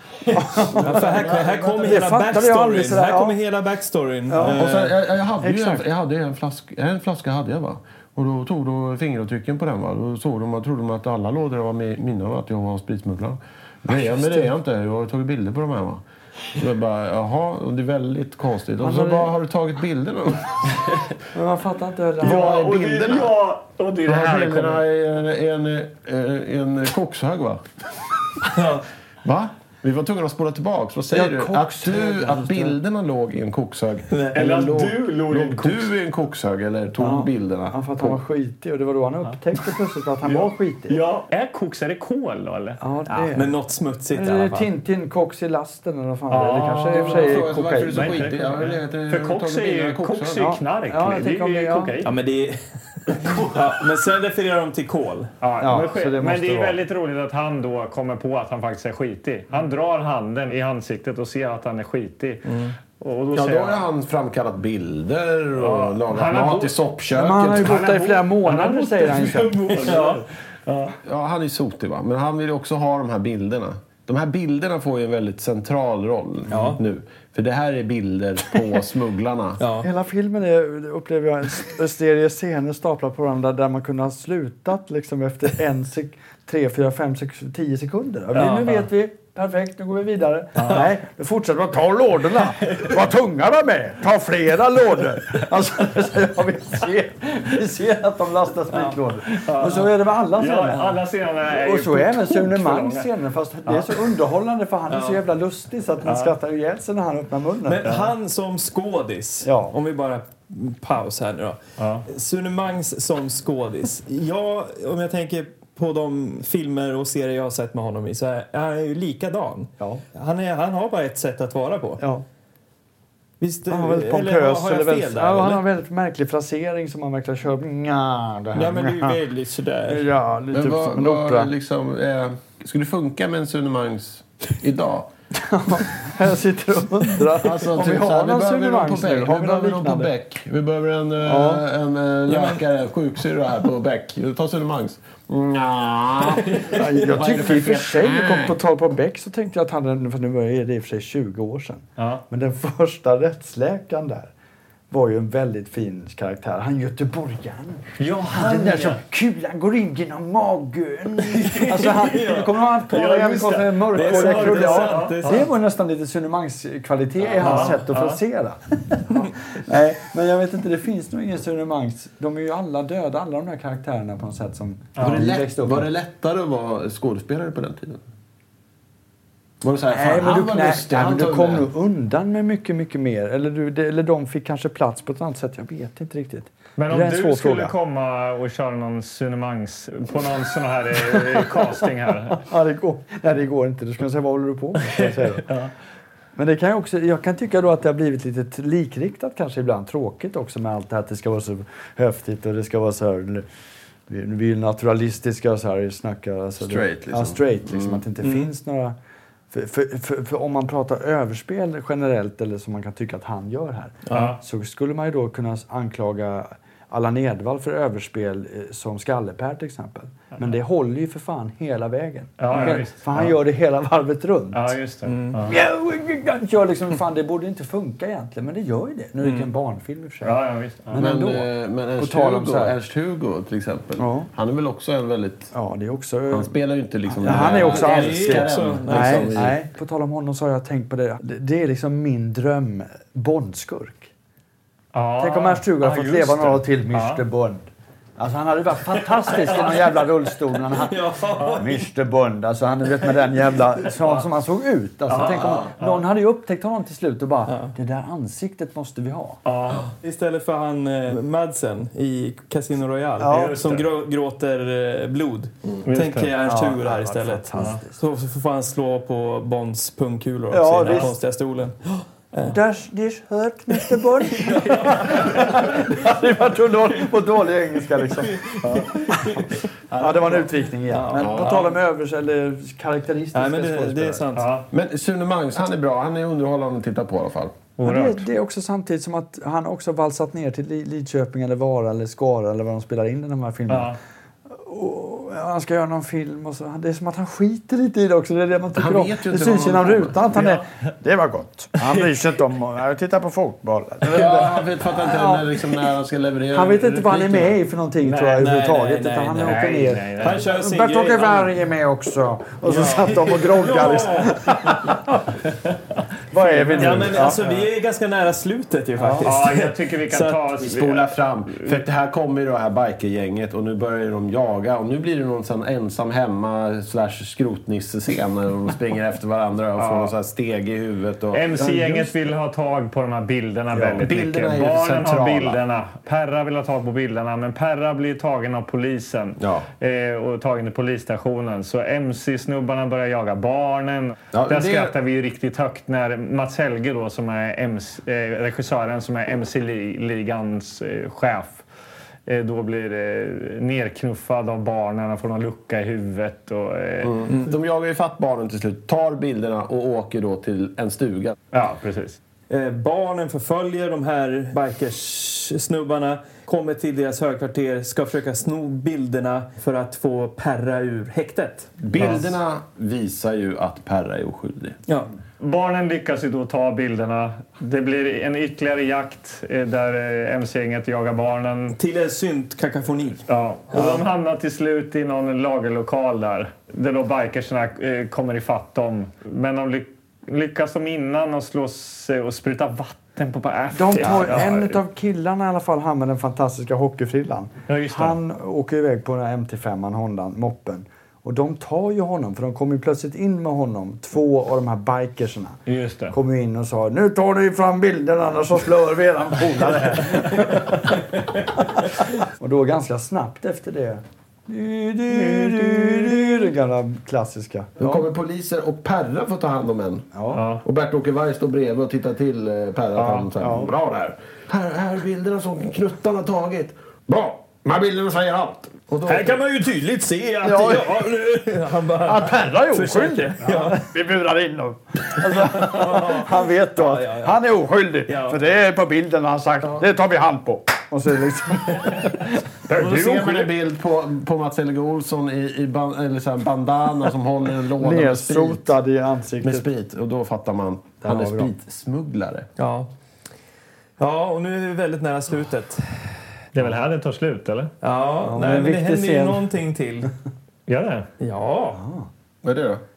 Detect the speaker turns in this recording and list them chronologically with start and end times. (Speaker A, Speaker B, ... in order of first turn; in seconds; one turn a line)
Speaker A: 0.3-3.4
Speaker B: 0.7-2.1
Speaker C: 0.8-4.9
Speaker A: 4.3-4.9
Speaker B: 4.5-16.0
Speaker A: 5.4-5.8
Speaker A: 13.9-14.5
Speaker B: 16.6-21.0
Speaker A: 18.8-19.3
Speaker A: 21.3-23.0
Speaker B: 22.2-23.4
Speaker D: 22.2-24.8
Speaker B: 24.1-27.6
Speaker C: 28.5-28.8
Speaker B: 29.2-38.2
Speaker A: 31.1-32.8
Speaker C: 34.1-34.4
Speaker D: 34.3-35.9
Speaker A: 37.0-41.0
Speaker D: 40.2-43.3
Speaker A: 42.8-43.5
Speaker C: 43.3-44.7
Speaker A: 44.1-48.3
Speaker D: 46.3-52.1
Speaker B: 46.9-50.5
Speaker A: 50.4-52.0
Speaker C: 52.0-55.3
Speaker D: 55.4-63.9
Speaker A: 55.6-56.8
Speaker C: 62.5-62.7
Speaker B: 63.3-67.8
Speaker D: 65.6-66.8
Speaker A: 67.1-70.2
Speaker D: 67.5-70.9
Speaker C: 69.8-70.2
Speaker B: 71.0-79.6
Speaker A: 76.5-76.8
Speaker C: 76.5-76.8
Speaker C: 79.6-79.9
Speaker A: 79.8-107.9
Speaker C: 88.3-88.9
Speaker D: 90.6-90.9
Speaker D: 99.3-103.1
Speaker D: 103.6-104.0
Speaker C: 104.9-105.2
Speaker D: 106.0-106.3
Speaker C: 107.7-122.0
Speaker D: 107.8-108.1
Speaker A: 109.4-109.8
Speaker D: 111.8-112.0
Speaker A: 122.0-122.2
Speaker C: 123.4-125.6
Speaker A: 123.7-129.2
Speaker C: 128.5-130.0
Speaker A: 129.9-131.5
Speaker B: 130.5-135.1
Speaker A: 135.3-140.1
Speaker B: 137.4-148.6
Speaker A: 141.2-141.6
Speaker C: 142.3-142.6
Speaker C: 146.4-147.1
Speaker A: 146.7-154.3
Speaker D: 152.0-152.2
Speaker A: 154.9-175.9
Speaker D: 158.0-159.0
Speaker C: 161.3-162.5
Speaker D: 162.9-165.4
Speaker C: 163.9-165.5
Speaker D: 167.4-168.2
Speaker D: 174.9-175.2
Speaker B: 175.0-178.0
Speaker B: 179.6-181.6
Speaker A: 179.9-187.7
Speaker D: 186.8-192.4
Speaker A: 190.9-195.5
Speaker A: 196.3-203.4
Speaker A: 204.1-208.9
Speaker B: 206.6-208.0
Speaker C: 208.2-208.5
Speaker A: 209.5-224.8
Speaker C: 214.1-214.3
Speaker D: 214.1-214.4
Speaker D: 222.4-223.3
Speaker D: 224.5-225.6
Speaker C: 225.1-225.4
Speaker A: 225.4-232.8
Speaker C: 229.2-229.5
Speaker D: 230.2-231.0
Speaker B: 230.9-235.5
Speaker A: 234.0-234.3
Speaker A: 235.5-236.5
Speaker B: 236.3-239.6
Speaker A: 237.1-244.1
Speaker C: 237.2-239.4
Speaker D: 244.9-247.2
Speaker A: 245.2-259.4
Speaker C: 249.2-249.8
Speaker C: 250.7-251.8
Speaker D: 255.1-256.0
Speaker C: 255.2-255.7
Speaker C: 257.5-257.7
Speaker D: 259.4-259.9
Speaker C: 259.9-272.6
Speaker A: 263.2-263.6
Speaker D: 263.3-263.9
Speaker D: 265.9-266.3
Speaker A: 266.4-268.0
Speaker A: 270.5-271.2
Speaker A: 272.4-278.4
Speaker C: 274.4-275.8
Speaker C: 278.2-279.6
Speaker D: 278.6-279.1
Speaker A: 279.1-279.4
Speaker A: 280.0-284.2
Speaker C: 280.9-281.7
Speaker B: 281.1-281.6
Speaker C: 283.3-284.5
Speaker D: 284.3-284.7
Speaker B: 284.7-287.6
Speaker D: 287.8-288.2
Speaker A: 287.8-294.0
Speaker D: 293.7-294.0
Speaker A: 294.5-305.7
Speaker B: 298.8-300.2
Speaker D: 300.3-300.6
Speaker B: 304.1-307.6
Speaker A: 306.5-315.2
Speaker D: 308.0-308.4
Speaker C: 308.3-309.7
Speaker D: 309.4-310.4
Speaker C: 310.2-311.5
Speaker C: 312.6-314.8
Speaker A: 316.3-317.4
Speaker D: 316.6-317.6
Speaker C: 316.7-320.4
Speaker A: 318.9-319.3
Speaker D: 319.2-321.8
Speaker B: 320.6-332.1
Speaker D: 329.8-330.1
Speaker D: 331.3-351.6
Speaker B: 333.8-335.6
Speaker B: 339.4-339.6
Speaker B: 344.3-344.9
Speaker D: 352.3-357.3
Speaker B: 357.0-361.4
Speaker D: 361.5-362.2
Speaker C: 362.5-371.7
Speaker B: 371.8-374.8
Speaker D: 372.0-372.3
Speaker D: 375.4-381.8
Speaker C: 381.8-384.0
Speaker D: 383.3-394.8
Speaker A: 393.7-405.6
Speaker D: 397.7-398.2
Speaker D: 405.7-406.1
Speaker A: 406.1-418.1
Speaker D: 415.2-416.2
Speaker B: 417.8-420.1
Speaker A: 420.1-420.4
Speaker D: 420.3-420.6
Speaker B: 420.6-429.4
Speaker D: 422.9-423.3
Speaker A: 423.4-423.7
Speaker C: 429.1-433.8
Speaker A: 430.4-431.1
Speaker A: 432.0-443.4
Speaker C: 435.4-437.4
Speaker C: 438.1-438.4
Speaker B: 442.7-448.7
Speaker A: 447.8-449.7
Speaker B: 449.4-452.5
Speaker A: 451.0-451.5
Speaker C: 452.6-452.9
Speaker C: 454.0-455.9
Speaker D: 456.5-457.7
Speaker C: 457.8-460.1
Speaker A: 458.2-459.5
Speaker D: 460.7-461.1
Speaker C: 461.2-461.8
Speaker A: 461.7-462.1
Speaker B: 462.4-462.8